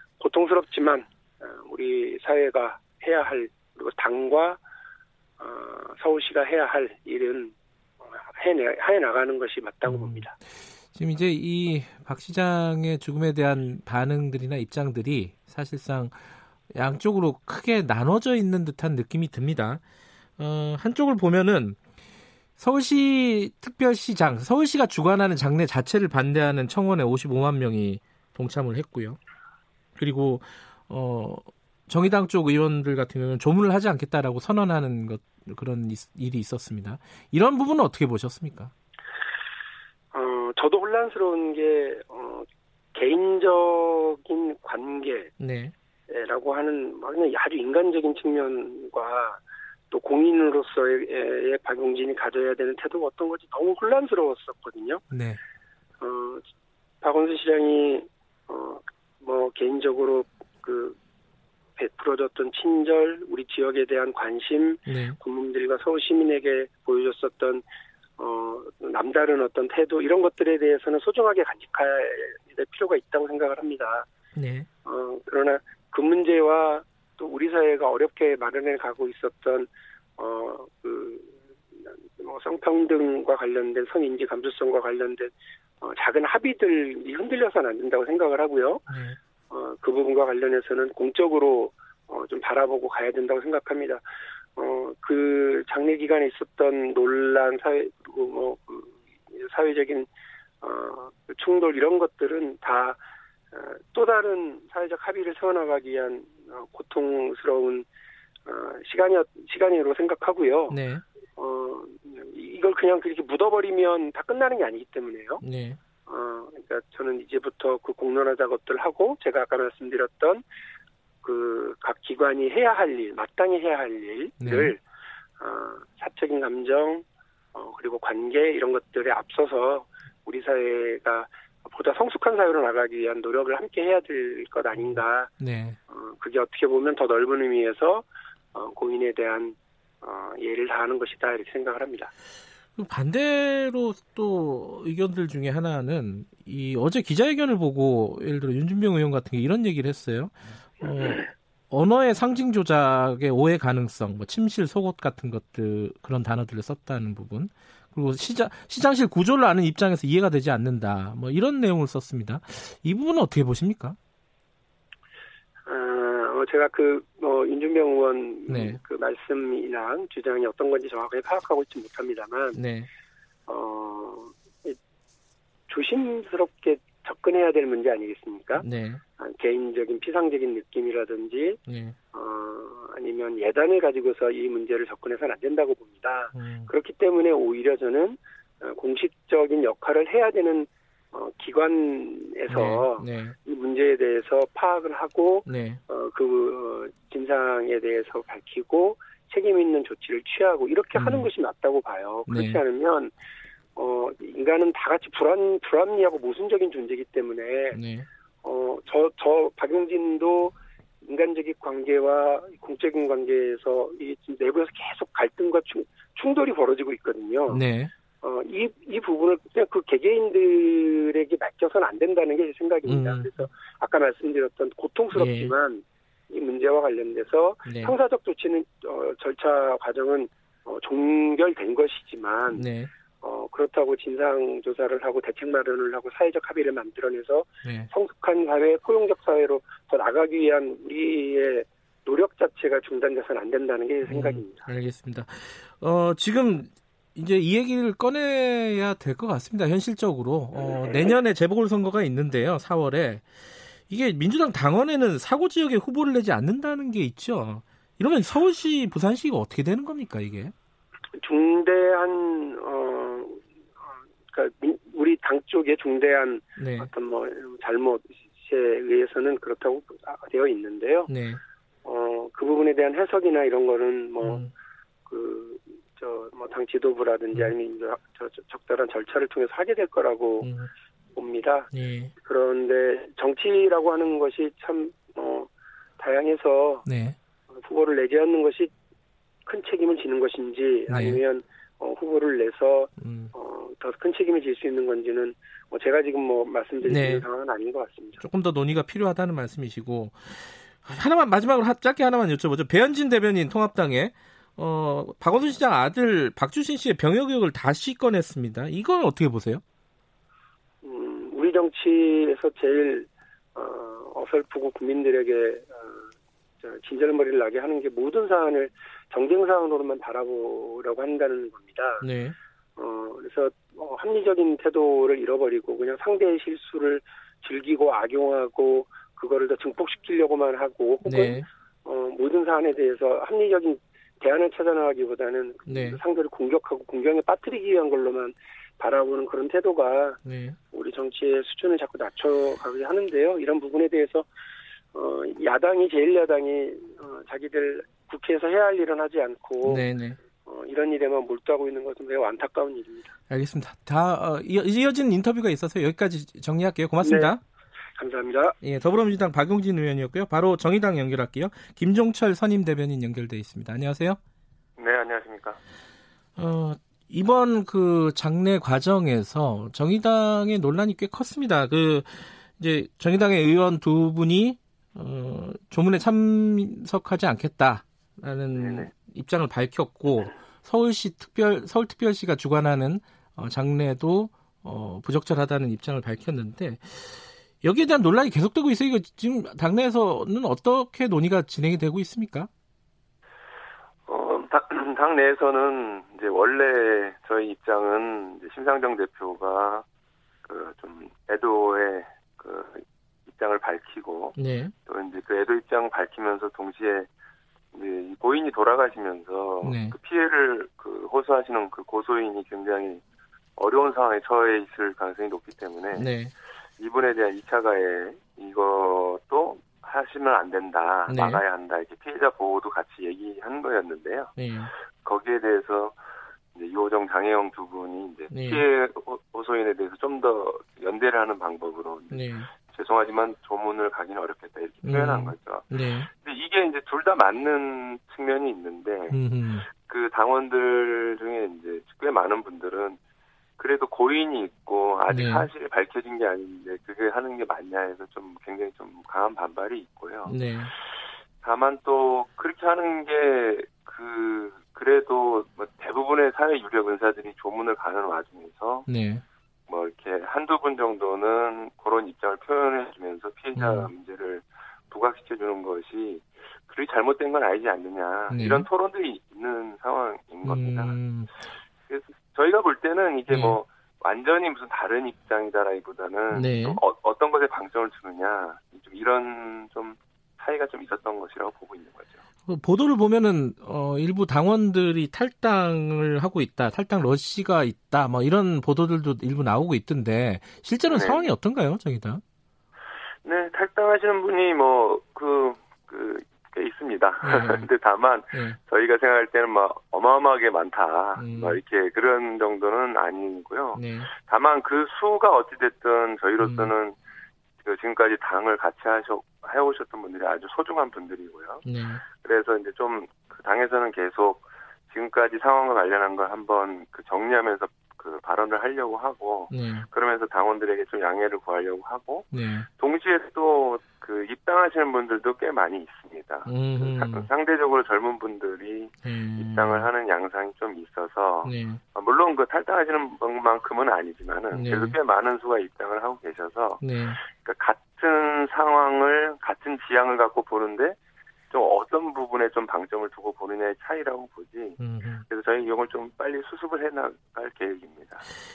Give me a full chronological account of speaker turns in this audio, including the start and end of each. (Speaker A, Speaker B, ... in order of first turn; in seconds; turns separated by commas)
Speaker A: 0.2-4.6, Speaker A: 5.4-7.5, Speaker A: 8.1-10.3, Speaker B: 9.8-10.3, Speaker B: 10.9-16.2, Speaker B: 16.7-19.8, Speaker B: 20.4-21.8, Speaker B: 22.6-29.2, Speaker B: 30.0-38.7, Speaker A: 40.1-45.3, Speaker B: 45.4-45.7, Speaker A: 46.1-55.0, Speaker B: 55.1-55.4, Speaker A: 56.0-56.4, Speaker A: 57.0-61.0, Speaker A: 61.8-67.6, Speaker B: 64.9-65.2, Speaker A: 68.2-74.1, Speaker B: 74.3-74.7, Speaker A: 74.8-81.4, Speaker A: 82.2-88.9, Speaker B: 88.9-89.2, Speaker A: 89.5-94.0, Speaker A: 94.5-100.1, Speaker A: 100.6-103.0, Speaker A: 103.5-107.8, Speaker A: 108.5-110.8, Speaker B: 110.7-111.0, Speaker A: 111.3-115.4, Speaker B: 115.4-115.8, Speaker A: 116.0-120.4, Speaker A: 121.2-124.8, Speaker B: 124.4-124.8, Speaker A: 125.4-135.3, Speaker B: 134.8-135.8, Speaker A: 135.9-142.1, Speaker B: 142.8-164.0, Speaker A: 165.7-172.6, Speaker B: 168.5-168.8, Speaker B: 172.5-172.9, Speaker A: 173.5-174.8, Speaker A: 175.7-178.6, Speaker B: 178.6-179.0, Speaker A: 179.2-181.6, Speaker B: 181.7-182.0, Speaker A: 182.1-203.1, Speaker B: 186.3-186.7, Speaker B: 192.5-193.3, Speaker B: 195.5-195.8, Speaker B: 200.9-201.3, Speaker B: 202.3-202.6, Speaker A: 203.8-207.8, Speaker B: 207.7-208.1, Speaker A: 208.4-217.6, Speaker B: 217.5-217.9, Speaker A: 218.2-232.6, Speaker B: 222.9-223.3, Speaker B: 225.1-225.5, Speaker B: 227.6-227.9, Speaker B: 232.5-232.9, Speaker A: 233.2-244.7, Speaker B: 237.6-237.9, Speaker B: 244.1-253.3, Speaker A: 250.6-251.1, Speaker B: 253.9-260.5, Speaker A: 261.2-263.4, Speaker A: 264.3-271.1, Speaker B: 266.6-266.9, Speaker B: 271.1-271.4, Speaker A: 271.8-274.4, Speaker B: 274.2-274.5, Speaker A: 275.1-280.5, Speaker B: 280.4-280.7, Speaker A: 281.1-286.8, Speaker B: 281.7-282.1, Speaker B: 286.8-287.1, Speaker A: 287.6-288.7, Speaker A: 289.4-298.2, Speaker B: 290.9-291.2, Speaker B: 293.0-293.3, Speaker B: 296.8-297.2, Speaker B: 298.2-309.6, Speaker A: 310.8-316.1, Speaker A: 316.6-322.0, Speaker B: 322.0-322.4, Speaker A: 322.8-340.2, Speaker B: 331.0-331.5, Speaker B: 335.7-336.0, Speaker B: 340.2-340.6, Speaker A: 340.7-344.3, Speaker A: 344.9-349.9, Speaker B: 349.6-350.2, Speaker A: 350.4-353.1, Speaker B: 353.3-357.4, Speaker A: 357.0-357.3, Speaker A: 358.0-358.6, Speaker B: 358.6-364.2, Speaker C: 364.8-365.6, Speaker B: 366.4-392.5, Speaker C: 378.5-378.9, Speaker C: 394.1-399.8, Speaker C: 400.4-407.1, Speaker B: 404.4-404.7, Speaker C: 407.7-413.0, Speaker B: 409.6-409.9, Speaker C: 413.6-416.1, Speaker B: 415.9-416.3, Speaker C: 416.8-424.3, Speaker B: 421.1-421.4, Speaker B: 424.4-424.7, Speaker C: 425.0-426.0, Speaker C: 426.5-443.0, Speaker B: 428.3-428.6, Speaker B: 432.1-432.5, Speaker B: 434.8-436.1, Speaker B: 439.1-439.6, Speaker C: 443.6-458.9, Speaker B: 445.1-445.5, Speaker B: 450.3-450.7, Speaker B: 458.9-459.2, Speaker C: 459.7-470.9, Speaker B: 463.6-463.9, Speaker B: 468.3-468.6, Speaker B: 470.4-471.3, Speaker C: 471.9-482.2, Speaker B: 473.3-473.6, Speaker B: 476.3-476.8, Speaker B: 482.5-492.2, Speaker C: 490.8-491.3, Speaker C: 493.2-506.9, Speaker B: 497.2-497.7, Speaker B: 501.2-501.6, Speaker B: 503.7-504.1, Speaker B: 506.4-506.7, Speaker C: 507.6-511.6, Speaker B: 511.6-512.0, Speaker C: 512.1-541.0, Speaker B: 519.5-519.9, Speaker B: 522.3-522.7, Speaker B: 526.5-527.3, Speaker B: 529.0-529.9, Speaker B: 531.4-531.8, Speaker B: 534.5-535.0, Speaker B: 536.8-537.2, Speaker C: 541.5-548.2, Speaker B: 544.8-545.2